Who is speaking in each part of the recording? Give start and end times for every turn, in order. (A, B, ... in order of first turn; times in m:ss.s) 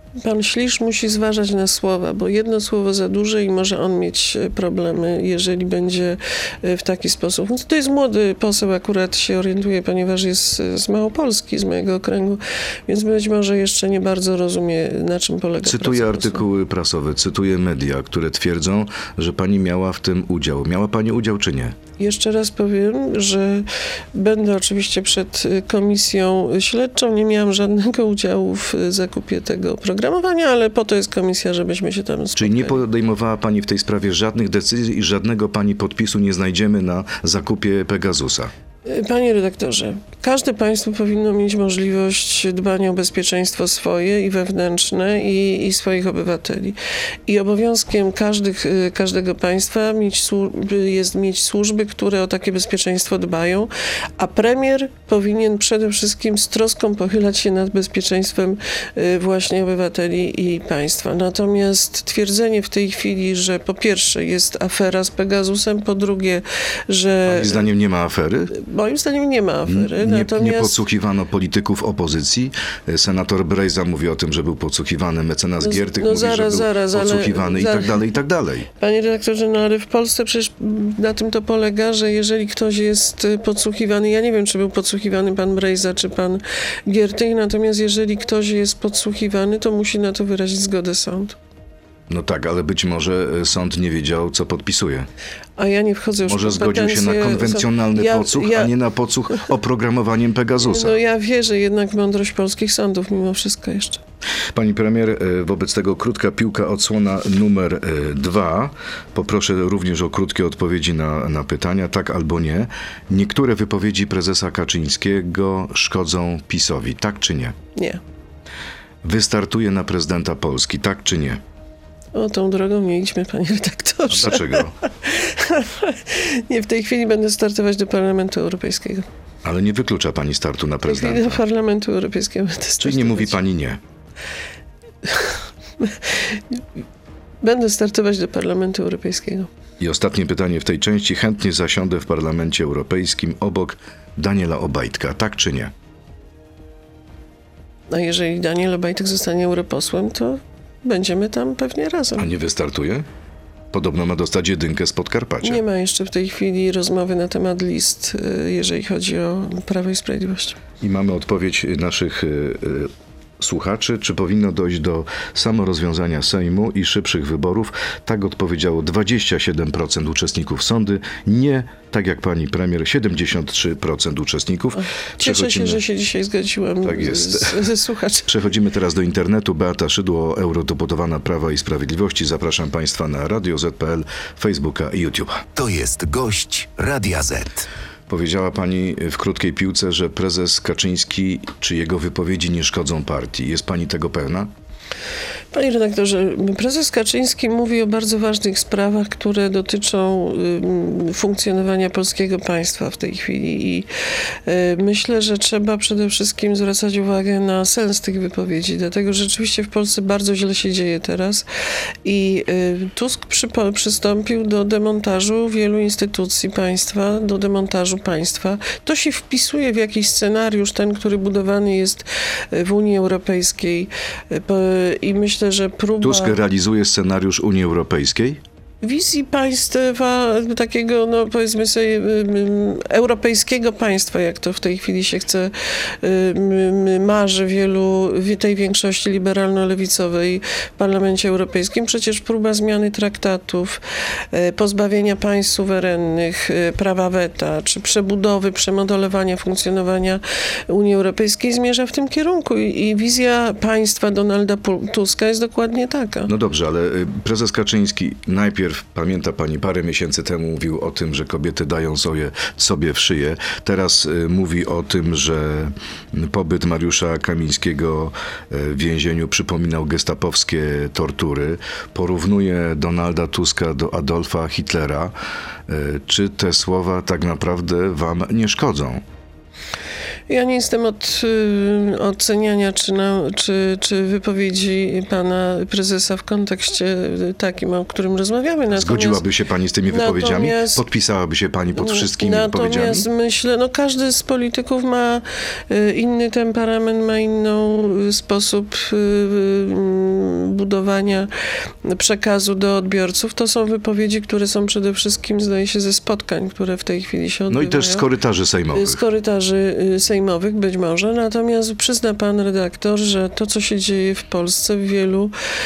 0:00.2-0:16.4 A
0:15.6-0:21.8 B
0:22.0-0:32.8 A
0:32.4-0:38.5 B
0:38.9-0:46.8 A
0:47.3-1:07.7 A
1:07.3-1:08.6 B
1:08.5-1:10.8 A
1:09.7-1:18.7 B
1:15.6-1:18.0 A
1:18.8-1:31.4 A
1:32.1-1:35.1 B
1:35.6-1:38.7 A
1:36.3-1:41.0 B
1:40.6-1:44.0 A
1:44.5-1:57.6 B
1:57.8-1:58.0 A
1:59.0-2:01.4 B
2:02.1-2:09.1 A
2:04.1-2:04.7 B
2:09.4-2:11.4 B
2:10.9-2:13.4 A
2:12.8-2:13.8 B
2:15.1-2:16.6 A
2:17.4-2:19.5 A
2:19.8-2:25.7 B
2:27.9-2:32.3 A
2:32.2-2:33.1 B
2:33.7-2:35.6 B
2:35.4-2:40.6 A
2:40.8-2:55.8 B
2:54.8-2:58.3 A
2:56.8-2:57.7 B
2:58.3-3:05.5 B
3:05.6-3:07.7 C
3:08.1-3:14.5 B
3:15.5-3:23.9 A
3:24.5-3:31.4 A
3:32.0-3:46.4 A
3:46.0-3:48.4 B
3:48.8-4:03.8 A
4:04.3-4:16.3 A
4:16.3-4:35.1 B
4:35.7-4:39.0 B
4:40.3-4:49.2 A
4:48.7-4:53.1 B
4:49.9-4:50.8 A
4:51.8-5:01.3 A
5:01.9-5:08.1 A
5:07.5-5:09.0 B
5:08.7-5:15.3 A